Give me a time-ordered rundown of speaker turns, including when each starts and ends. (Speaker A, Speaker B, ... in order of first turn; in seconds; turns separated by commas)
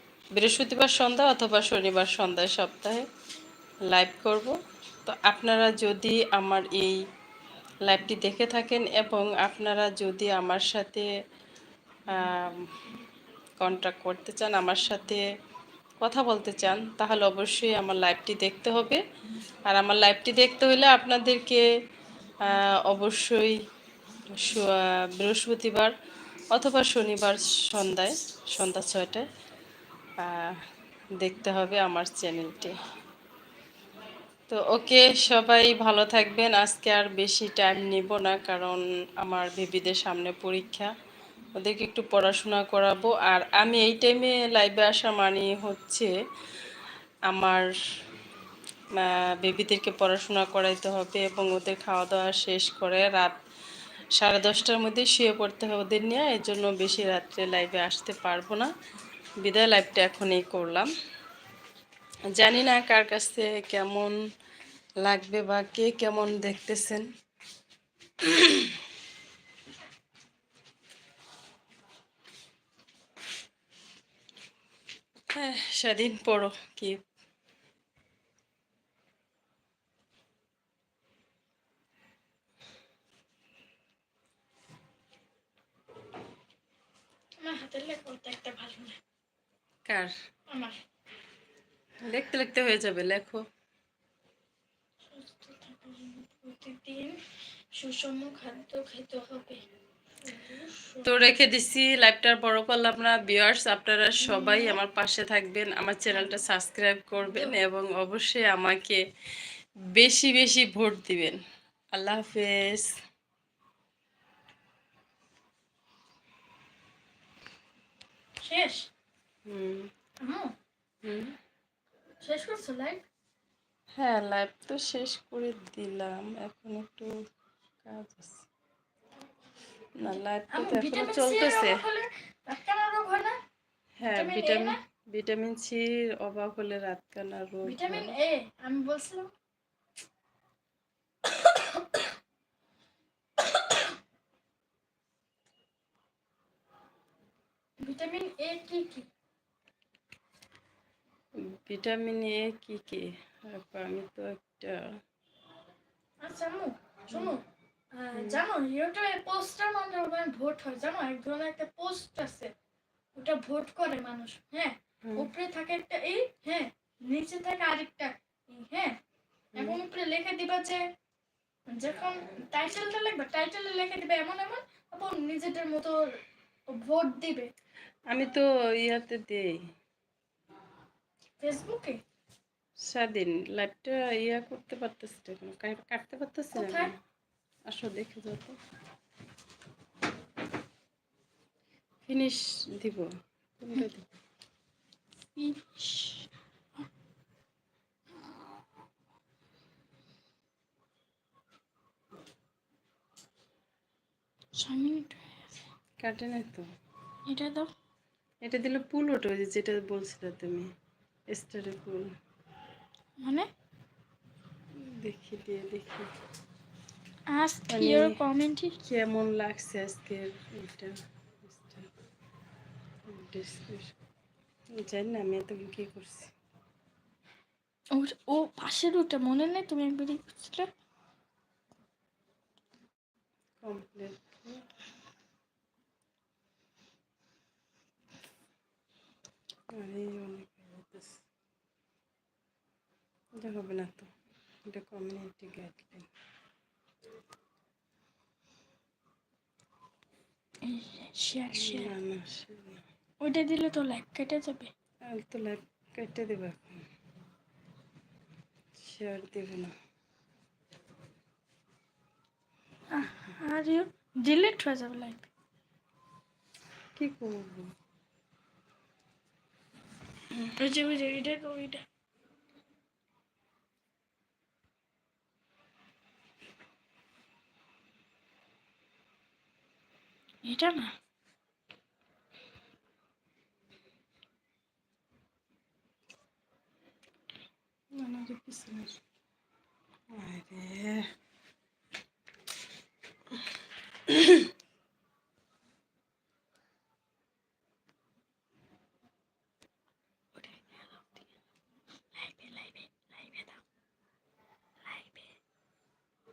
Speaker A: 0.3-3.0, Speaker A: 3.9-7.0, Speaker A: 7.9-11.1, Speaker A: 12.1-12.7, Speaker A: 13.6-15.2, Speaker A: 16.0-19.0, Speaker A: 19.7-21.6, Speaker A: 22.4-23.6, Speaker A: 24.3-25.9, Speaker A: 26.5-29.2, Speaker A: 30.2-30.6, Speaker A: 31.2-32.8, Speaker A: 34.5-40.9, Speaker A: 41.6-46.1, Speaker A: 47.3-47.7, Speaker A: 49.0-53.4, Speaker A: 54.2-58.7, Speaker A: 59.4-60.9, Speaker A: 62.3-64.2, Speaker A: 65.0-67.1, Speaker A: 68.2-68.8, Speaker A: 75.3-77.0, Speaker B: 87.4-89.0, Speaker A: 89.9-90.1, Speaker B: 90.5-90.8, Speaker A: 92.0-93.4, Speaker B: 95.1-97.2, Speaker B: 97.7-99.7, Speaker B: 100.2-101.2, Speaker A: 101.0-109.0, Speaker B: 104.2-104.8, Speaker B: 107.3-107.6, Speaker A: 109.9-111.4, Speaker A: 111.9-112.9, Speaker B: 118.4-118.9, Speaker A: 119.5-119.9, Speaker B: 120.2-120.5, Speaker A: 121.0-121.3, Speaker B: 122.2-123.0, Speaker A: 124.0-127.1, Speaker A: 127.8-128.5, Speaker A: 130.0-131.8, Speaker B: 130.5-133.3, Speaker A: 134.0-138.2, Speaker B: 134.1-134.8, Speaker B: 137.7-139.3, Speaker B: 141.3-142.1, Speaker B: 143.5-143.8, Speaker B: 147.8-149.1, Speaker A: 151.5-154.9, Speaker B: 156.2-157.4, Speaker B: 158.0-162.5, Speaker A: 158.1-158.4, Speaker B: 163.2-169.0, Speaker A: 165.0-165.3, Speaker A: 169.5-169.8, Speaker B: 169.6-170.8, Speaker B: 171.7-176.0, Speaker B: 176.7-177.5, Speaker A: 178.1-179.6, Speaker B: 181.4-182.0, Speaker A: 182.9-186.9, Speaker B: 186.5-186.9, Speaker A: 187.7-188.6, Speaker A: 192.1-194.2, Speaker B: 195.3-196.9, Speaker B: 204.6-205.6, Speaker A: 206.0-206.7, Speaker B: 207.3-207.7, Speaker A: 208.4-210.7, Speaker A: 211.3-212.1, Speaker B: 213.2-213.5, Speaker A: 214.8-216.1, Speaker B: 217.3-218.8, Speaker A: 217.7-218.2, Speaker A: 218.8-221.9, Speaker A: 223.1-223.9, Speaker A: 224.8-226.3, Speaker B: 227.9-230.7, Speaker A: 233.6-234.6, Speaker A: 239.7-241.2, Speaker A: 243.4-244.1, Speaker A: 244.7-246.1, Speaker B: 250.7-251.9, Speaker A: 251.5-252.8, Speaker B: 253.2-254.7, Speaker A: 255.1-256.8, Speaker A: 258.8-259.8, Speaker B: 262.9-265.3, Speaker A: 267.0-267.7, Speaker B: 270.6-271.9, Speaker B: 280.4-280.9, Speaker A: 287.9-289.0, Speaker A: 290.1-291.1, Speaker A: 294.1-294.5, Speaker B: 300.4-301.1, Speaker B: 302.1-303.6, Speaker B: 304.8-305.4